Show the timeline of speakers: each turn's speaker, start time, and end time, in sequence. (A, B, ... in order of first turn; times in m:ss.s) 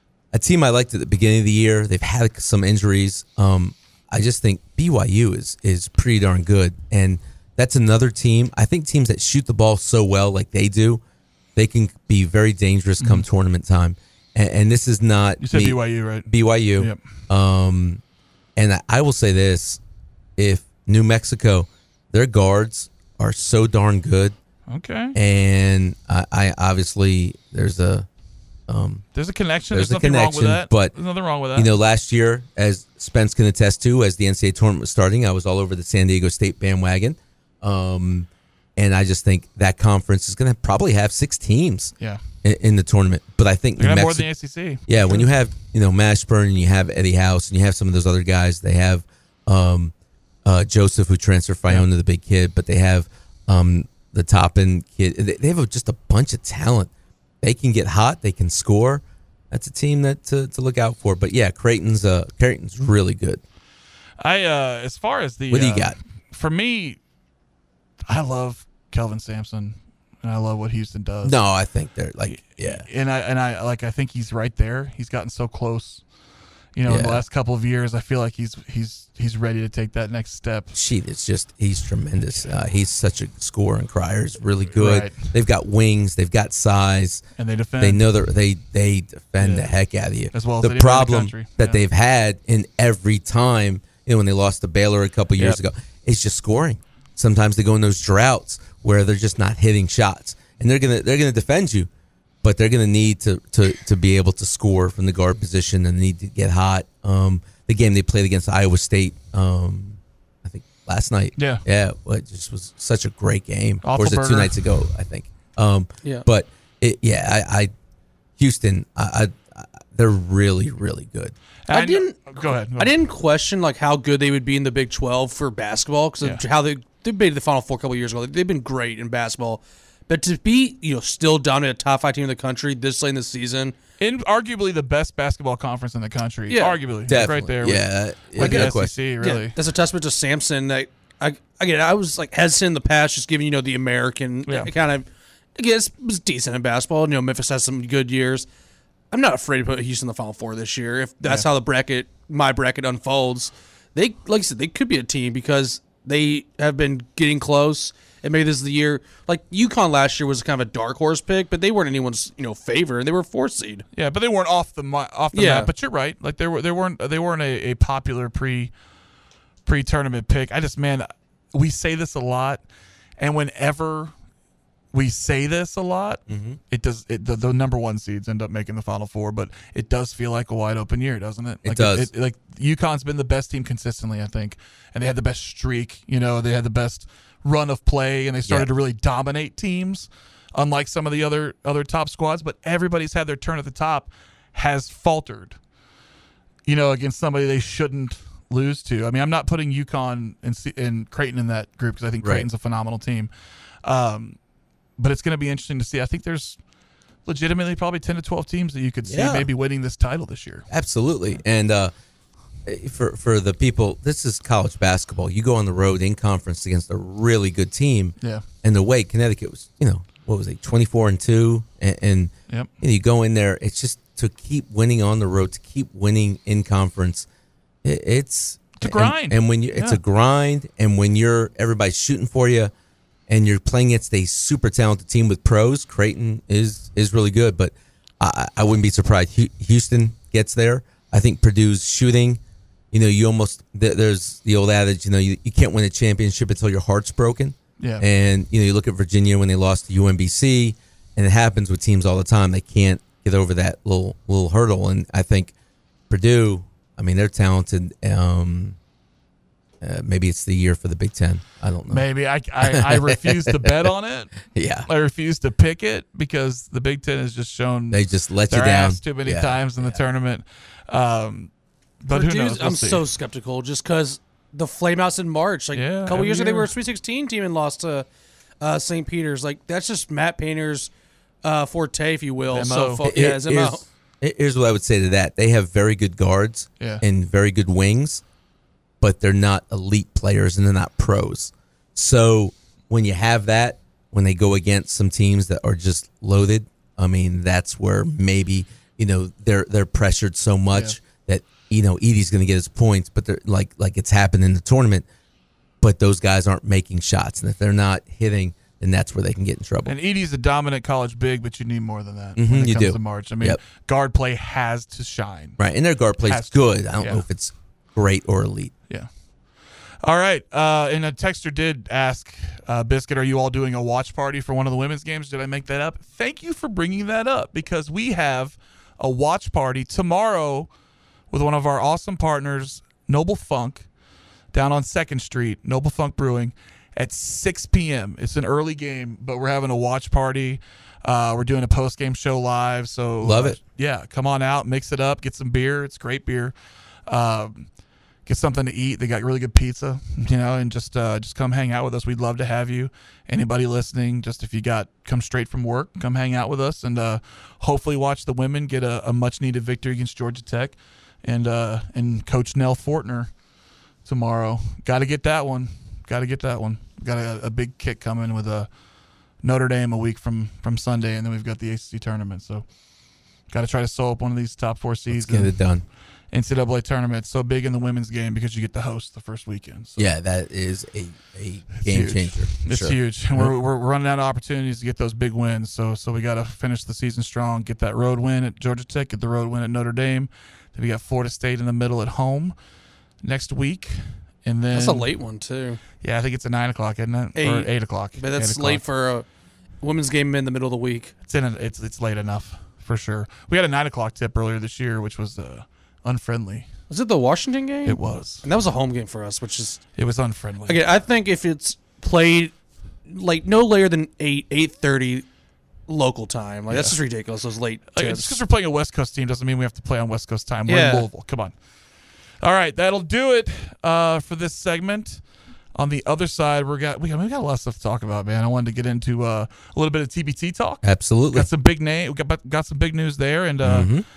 0:00.3-0:11.0 A
0:11.6-0:18.0 A
0:13.0-0:13.2 B
0:15.4-0:17.0 B
0:18.6-0:19.8 A
0:20.4-0:24.3 A
0:24.7-0:25.2 B
0:25.1-0:28.1 A
0:28.7-0:29.0 A
0:29.1-0:31.7 B
0:29.7-0:30.9 A
0:31.5-0:44.3 A
0:43.8-0:45.3 B
0:44.8-0:49.9 A
0:50.4-0:56.9 A
0:57.4-1:03.4 A
1:04.2-1:07.0 B
1:05.5-1:06.0 A
1:08.1-1:11.4 B
1:11.2-1:12.9 A
1:12.2-1:16.0 B
1:16.7-1:20.8 B
1:16.8-1:17.2 A
1:20.7-1:27.2 A
1:24.7-1:25.3 B
1:27.4-1:28.0 B
1:27.8-1:41.9 A
1:29.4-1:29.7 B
1:30.3-1:31.8 B
1:42.4-1:57.7 A
1:51.4-1:51.6 B
1:53.8-1:54.6 B
1:58.4-2:01.3 A
2:01.7-2:02.9 B
2:01.7-2:13.7 C
2:14.0-2:19.5 B
2:16.5-2:16.8 C
2:17.0-2:18.9 A
2:18.4-2:28.4 C
2:29.1-2:43.8 C
2:43.9-2:48.7 B
2:45.3-2:45.7 C
2:49.6-2:52.6 B
2:53.2-2:54.1 B
2:54.9-3:15.6 B
2:56.3-2:56.6 A
3:01.6-3:02.1 A
3:16.6-3:23.3 B
3:22.2-3:22.5 A
3:23.8-3:24.4 B
3:25.0-3:26.6 B
3:27.2-3:30.7 B
3:29.0-3:29.5 A
3:30.7-3:31.9 A
3:32.6-3:47.3 A
3:47.8-3:52.7 A
3:48.8-3:50.0 B
3:53.3-4:02.4 A
4:02.9-4:15.5 A
4:07.8-4:08.0 B
4:16.1-4:18.8 A
4:19.8-4:22.0 A
4:21.9-4:24.3 B
4:22.6-4:23.7 A
4:24.4-4:24.9 A
4:24.8-4:31.5 B
4:27.9-4:30.0 A
4:32.0-4:33.0 B
4:32.1-4:38.0 C
4:35.7-4:36.7 B
4:38.6-4:40.9 C
4:41.4-4:43.8 C
4:42.5-4:43.1 B
4:43.0-4:48.2 A
4:49.0-5:05.0 A
5:00.7-5:01.0 B
5:05.8-5:09.9 A
5:09.8-5:15.6 B
5:12.4-5:13.6 A
5:15.6-5:18.7 A
5:16.2-5:17.2 B
5:20.0-5:30.7 B
5:31.3-5:33.8 B
5:34.5-5:46.5 B
5:43.2-5:43.6 A
5:47.1-5:47.7 B
5:48.2-6:03.3 B
6:04.0-6:08.7 B
6:09.4-6:12.6 B
6:13.5-6:15.5 B
6:15.1-6:15.8 A
6:16.3-6:20.1 B
6:20.0-6:23.5 A
6:21.8-6:32.5 B
6:33.2-6:35.1 B
6:34.7-6:35.8 C
6:36.0-6:38.8 B
6:37.4-6:39.2 C
6:39.8-6:41.1 C
6:41.3-6:46.7 B
6:46.9-6:49.8 C
6:47.8-6:48.4 B
6:50.0-6:50.8 B
6:50.7-6:52.5 C
6:53.1-6:55.2 C
6:55.9-6:58.4 C
6:56.7-6:57.0 B
6:57.9-7:01.5 B
7:00.7-7:01.1 C
7:02.4-7:05.2 B
7:05.8-7:13.9 B
7:10.8-7:11.5 A
7:13.6-7:14.0 A